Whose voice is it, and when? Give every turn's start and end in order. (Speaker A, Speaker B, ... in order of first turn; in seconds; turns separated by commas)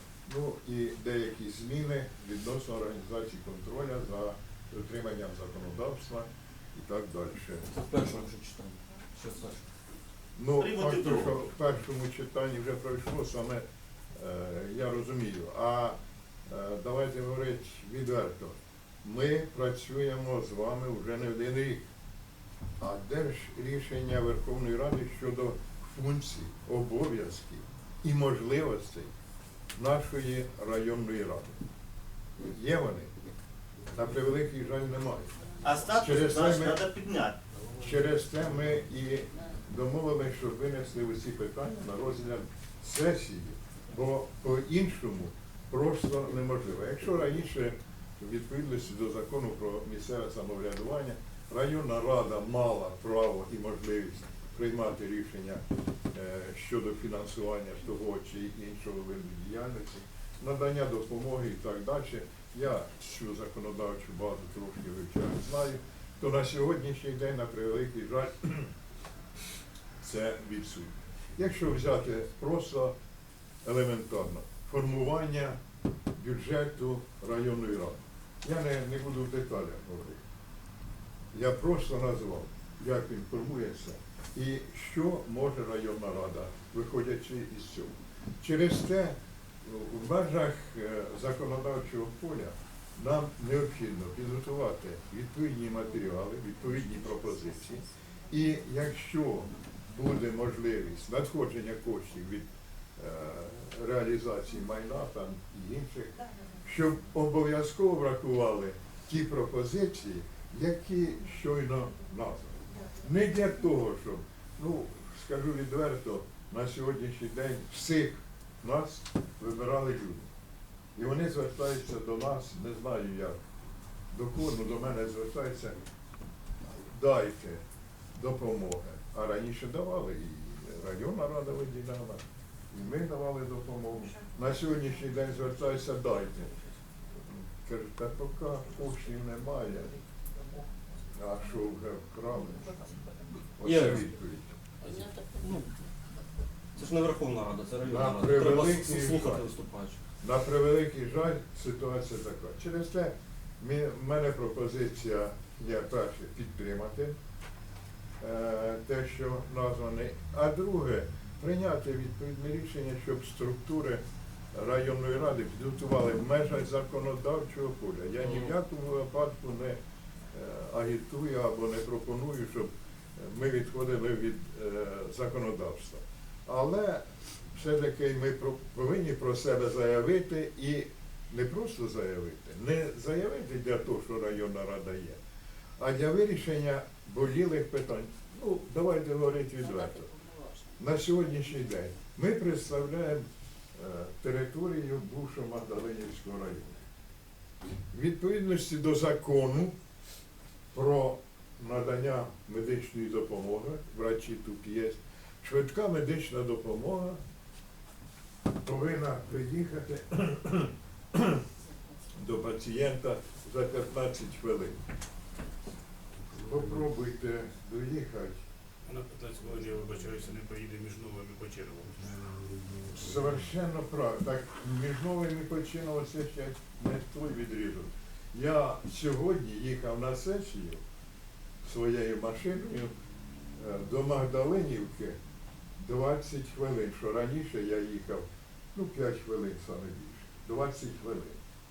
Speaker A: 0.2-7.7, Speaker B: 7.7-9.7, Speaker A: 10.4-13.6, Speaker C: 10.6-11.4, Speaker A: 14.1-21.9, Speaker A: 22.8-29.1, Speaker A: 29.8-31.6, Speaker A: 32.4-33.1, Speaker A: 33.9-35.3, Speaker C: 35.6-37.4, Speaker A: 36.0-36.8, Speaker A: 37.8-55.6, Speaker A: 56.1-68.7, Speaker A: 70.0-72.9, Speaker A: 73.6-75.6, Speaker A: 76.2-80.2, Speaker A: 81.3-102.4, Speaker A: 103.0-120.3, Speaker A: 121.0-123.4, Speaker A: 124.1-125.9, Speaker A: 126.7-127.6, Speaker A: 128.1-136.5, Speaker A: 137.2-140.0, Speaker A: 141.1-143.0, Speaker A: 143.6-144.5, Speaker B: 143.6-144.1, Speaker B: 144.8-145.7, Speaker B: 146.8-150.0, Speaker A: 147.8-149.5, Speaker A: 150.2-157.1, Speaker A: 158.2-164.0, Speaker A: 164.5-169.8, Speaker A: 170.3-185.2, Speaker A: 185.8-190.1, Speaker A: 190.8-196.8, Speaker A: 197.9-199.7, Speaker A: 200.7-207.2, Speaker A: 208.6-211.4, Speaker A: 212.2-214.8, Speaker A: 216.4-218.4, Speaker D: 219.2-221.4, Speaker A: 222.9-230.8, Speaker A: 231.6-232.9, Speaker A: 233.6-235.2, Speaker A: 235.8-241.4